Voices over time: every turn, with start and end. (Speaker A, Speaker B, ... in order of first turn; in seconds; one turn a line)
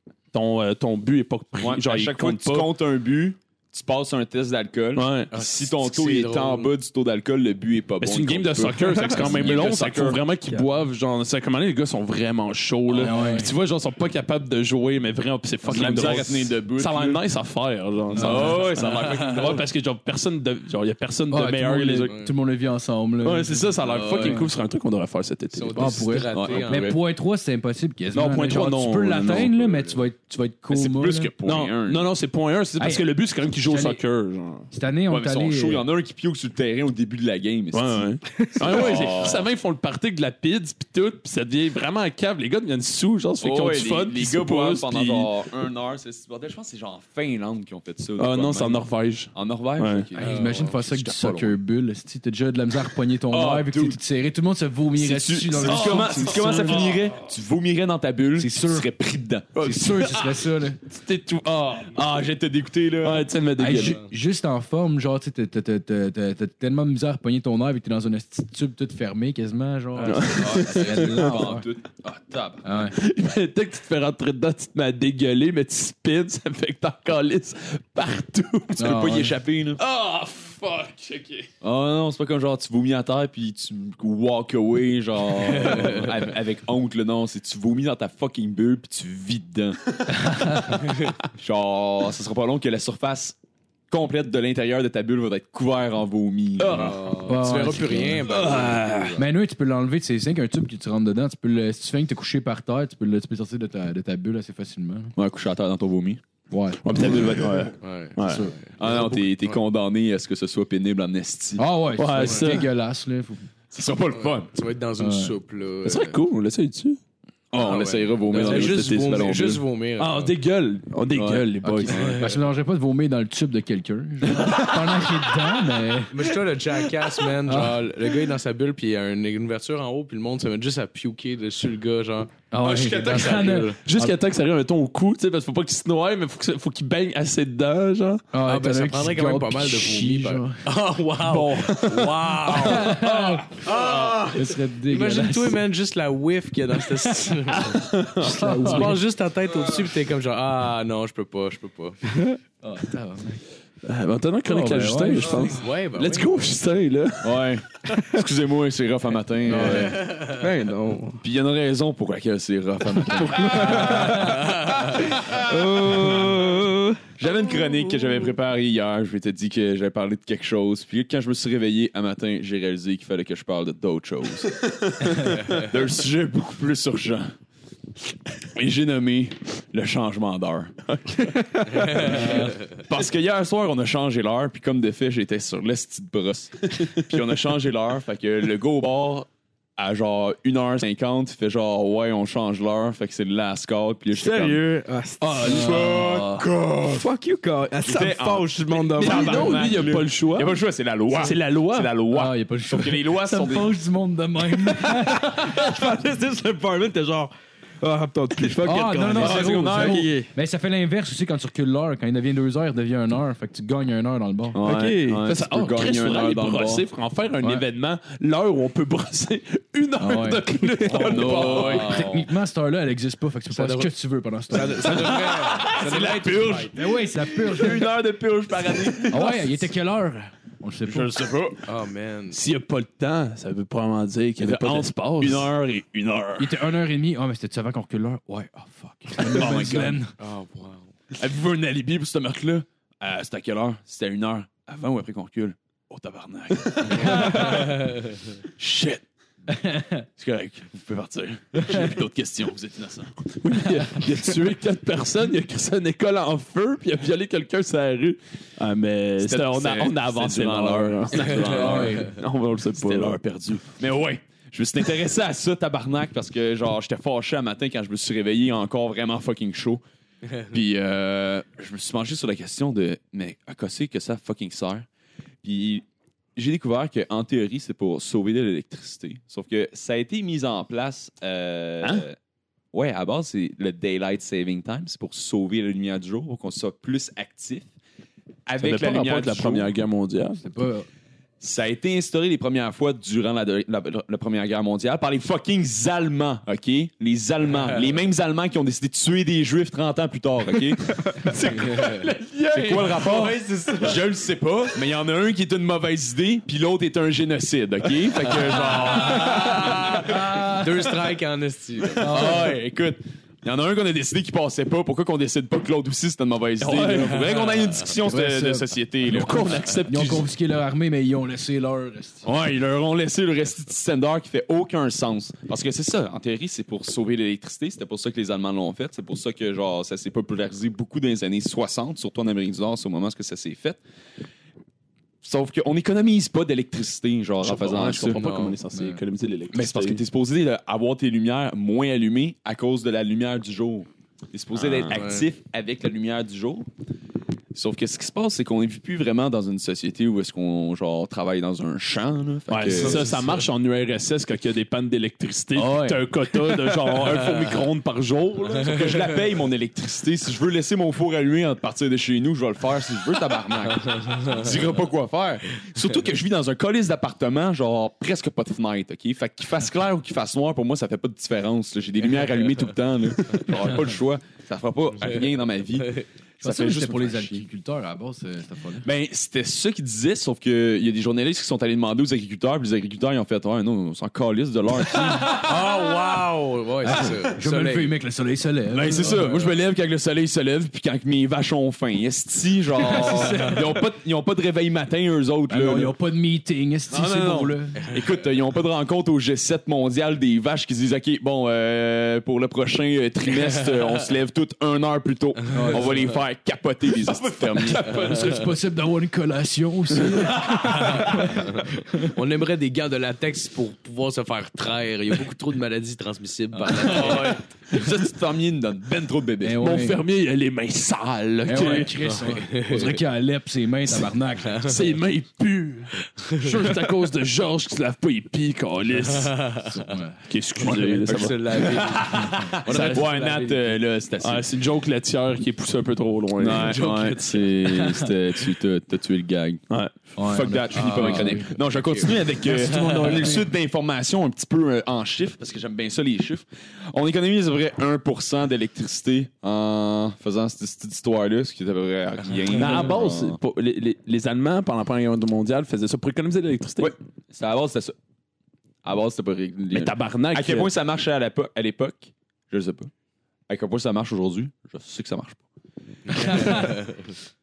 Speaker A: 0.3-2.7
Speaker B: 1.6-10.2
Speaker A: 5.0-5.3
Speaker C: 5.3-6.7
Speaker A: 8.0-22.1
Speaker D: 12.9-13.5
Speaker B: 15.7-17.2
Speaker B: 18.1-19.7
Speaker D: 18.2-18.7
Speaker D: 21.3-24.5
Speaker A: 23.2-26.0
Speaker C: 23.9-24.4
Speaker C: 25.5-26.9
Speaker D: 25.8-31.3
Speaker B: 26.3-27.0
Speaker A: 28.1-29.9
Speaker B: 30.7-32.1
Speaker A: 31.4-34.7
Speaker D: 32.8-34.0
Speaker D: 34.7-35.9
Speaker B: 35.1-39.5
Speaker A: 37.7-45.3
Speaker B: 43.4-51.5
Speaker A: 48.2-50.1
Speaker D: 50.2-56.9
Speaker C: 50.2-50.8
Speaker B: 53.3-54.0
Speaker B: 55.0-59.7
Speaker A: 55.6-57.2
Speaker D: 58.4-58.9
Speaker A: 59.5-62.0
Speaker D: 59.6-60.8
Speaker B: 61.9-63.3
Speaker A: 63.0-64.0
Speaker D: 63.6-71.7
Speaker C: 70.0-70.6
Speaker A: 70.0-71.4
Speaker B: 70.3-72.9
Speaker D: 72.6-73.0
Speaker A: 73.0-79.0
Speaker D: 78.8-79.3
Speaker B: 78.8-79.8
Speaker A: 79.8-81.5
Speaker B: 81.6-89.8
Speaker C: 85.5-86.1
Speaker D: 90.1-90.8
Speaker B: 91.3-93.4
Speaker B: 93.9-97.0
Speaker A: 96.6-97.0
Speaker C: 96.7-99.2
Speaker D: 97.3-98.3
Speaker A: 98.2-99.2
Speaker D: 99.2-105.1
Speaker B: 105.2-106.2
Speaker D: 106.5-107.1
Speaker A: 106.8-108.5
Speaker C: 107.8-109.6
Speaker D: 108.2-108.5
Speaker B: 108.8-111.6
Speaker D: 111.6-113.5
Speaker A: 112.0-112.7
Speaker B: 113.7-114.5
Speaker C: 114.2-116.2
Speaker D: 115.0-115.3
Speaker A: 115.8-117.0
Speaker B: 117.5-119.6
Speaker C: 117.5-120.3
Speaker A: 118.3-122.2
Speaker D: 121.2-126.2
Speaker C: 121.9-122.4
Speaker A: 124.3-125.1
Speaker C: 126.1-133.8
Speaker D: 127.5-127.8
Speaker D: 132.5-134.2
Speaker A: 132.7-138.3
Speaker D: 138.3-140.6
Speaker C: 138.4-143.0
Speaker A: 141.2-144.3
Speaker D: 142.5-143.5
Speaker C: 143.6-147.9
Speaker D: 144.3-145.6
Speaker A: 147.5-149.0
Speaker D: 148.2-149.0
Speaker C: 148.4-152.0
Speaker D: 152.6-153.4
Speaker A: 153.8-157.4
Speaker D: 154.4-155.6
Speaker C: 155.3-156.5
Speaker B: 157.2-160.0
Speaker D: 159.5-160.0
Speaker E: 159.8-161.2
Speaker C: 160.0-160.3
Speaker B: 161.2-164.4
Speaker E: 163.0-167.1
Speaker A: 163.5-163.8
Speaker D: 163.9-164.3
Speaker C: 164.4-164.8
Speaker B: 167.2-177.3
Speaker A: 174.6-175.4
Speaker B: 178.5-180.8
Speaker A: 180.9-182.1
Speaker C: 181.7-182.6
Speaker B: 181.9-194.7
Speaker E: 194.1-196.1
Speaker D: 195.2-196.4
Speaker B: 195.4-197.1
Speaker E: 196.9-199.9
Speaker B: 197.8-203.7
Speaker A: 199.0-200.6
Speaker A: 201.2-201.9
Speaker D: 202.1-205.6
Speaker E: 204.7-210.3
Speaker D: 208.6-214.6
Speaker B: 209.1-210.1
Speaker B: 214.5-216.8
Speaker E: 214.6-215.3
Speaker A: 215.3-222.0
Speaker D: 220.0-225.2
Speaker C: 221.0-222.3
Speaker B: 221.0-222.0
Speaker C: 223.5-223.9
Speaker C: 224.5-226.7
Speaker A: 224.9-226.3
Speaker B: 225.6-229.6
Speaker D: 226.7-227.9
Speaker A: 228.6-228.9
Speaker D: 229.1-231.2
Speaker B: 230.9-231.7
Speaker C: 231.7-232.4
Speaker A: 232.3-235.5
Speaker B: 234.4-236.6
Speaker D: 236.4-240.1
Speaker B: 239.2-240.0
Speaker C: 240.2-240.9
Speaker B: 241.1-247.8
Speaker C: 247.6-247.9
Speaker B: 248.6-249.0
Speaker D: 249.5-250.0
Speaker B: 250.2-253.1
Speaker A: 253.4-263.2
Speaker B: 259.2-262.1
Speaker C: 261.3-261.7
Speaker D: 261.5-262.1
Speaker B: 262.8-269.8
Speaker B: 270.5-274.9
Speaker B: 275.4-282.2
Speaker B: 282.7-287.7
Speaker B: 288.5-289.7
Speaker A: 288.6-290.4
Speaker D: 290.4-290.9
Speaker B: 291.4-301.4
Speaker A: 301.2-303.4
Speaker C: 301.5-302.1
Speaker B: 302.5-310.4
Speaker C: 303.0-303.9
Speaker C: 308.6-312.4
Speaker A: 308.9-309.3
Speaker D: 310.1-310.7
Speaker B: 312.0-319.6
Speaker D: 312.0-312.5
Speaker A: 316.6-317.3
Speaker D: 318.1-318.8
Speaker A: 319.1-320.3
Speaker D: 319.8-322.3
Speaker B: 322.2-333.8
Speaker B: 335.2-338.2
Speaker A: 337.4-340.0
Speaker C: 338.1-338.6
Speaker D: 338.7-339.0
Speaker B: 339.5-346.7
Speaker A: 344.6-345.0
Speaker C: 344.9-345.2
Speaker B: 347.5-353.2
Speaker A: 352.5-358.9
Speaker C: 352.8-353.4
Speaker D: 355.6-356.0
Speaker B: 358.6-377.4
Speaker C: 375.0-375.3
Speaker D: 376.4-378.9
Speaker B: 378.8-385.5
Speaker C: 385.3-387.9
Speaker D: 386.8-389.4
Speaker B: 388.7-395.9
Speaker C: 389.2-389.5
Speaker D: 392.8-393.8
Speaker D: 395.5-397.8
Speaker B: 396.9-408.0
Speaker D: 405.5-405.9
Speaker D: 407.6-411.4
Speaker C: 410.9-411.2
Speaker C: 412.0-417.4
Speaker B: 416.9-419.6
Speaker D: 419.4-420.0
Speaker A: 419.6-421.9
Speaker D: 421.4-424.7
Speaker C: 422.0-423.0
Speaker A: 424.6-429.5
Speaker C: 426.3-426.7
Speaker C: 429.0-429.8
Speaker D: 429.7-430.2
Speaker A: 430.3-431.9
Speaker C: 430.6-433.8
Speaker B: 431.1-434.5
Speaker A: 432.7-433.1
Speaker A: 434.2-436.8
Speaker B: 436.4-439.6
Speaker C: 436.5-438.1
Speaker D: 440.2-441.5
Speaker B: 440.2-453.4
Speaker C: 440.8-443.2
Speaker D: 442.4-443.4
Speaker A: 452.5-456.9
Speaker B: 456.8-457.9
Speaker B: 458.9-462.9
Speaker A: 459.7-460.7
Speaker B: 463.5-465.4
Speaker B: 466.2-466.7
Speaker C: 466.2-467.1